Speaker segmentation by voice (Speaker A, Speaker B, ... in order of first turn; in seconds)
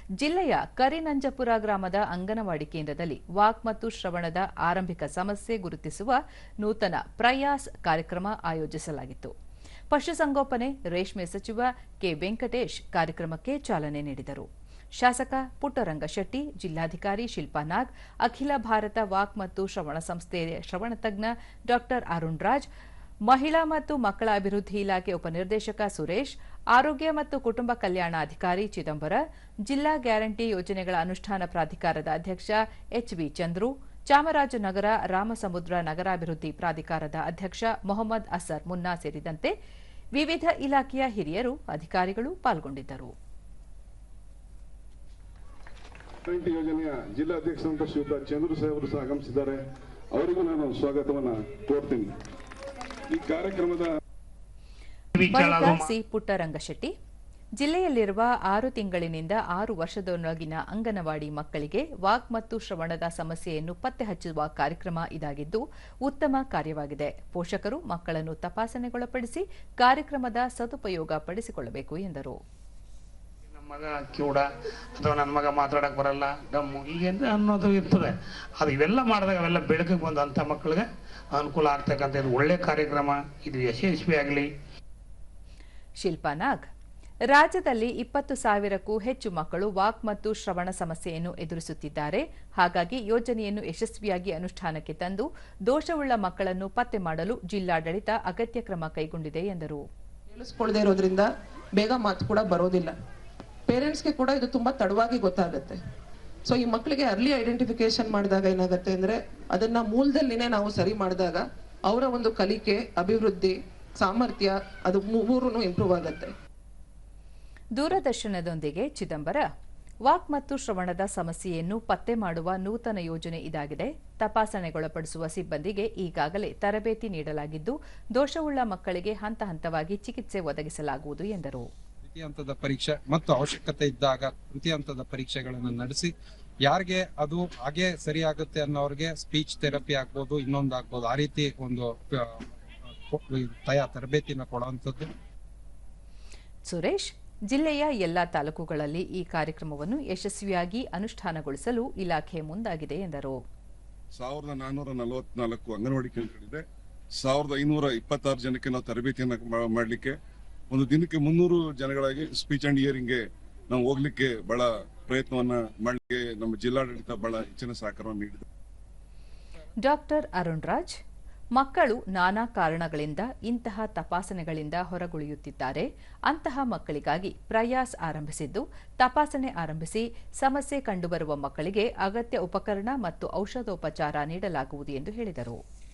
Speaker A: 0.2-9.3, 9.9-22.7, 23.3-39.5, 40.1-43.1, 55.2-56.9, 57.6-72.4, 86.0-86.6, 87.3-99.8, 117.7-119.5, 120.0-131.7, 146.7-153.4, 169.8-171.0, 171.6-185.6
Speaker B: 46.3-49.6, 50.1-52.1, 53.1-53.9, 154.1-156.6, 157.2-160.2, 160.7-168.4
Speaker C: 55.2-55.9, 73.5-84.5
Speaker D: 100.3-102.9, 103.7-105.8, 106.5-116.3
Speaker E: 132.0-136.1, 136.6-145.1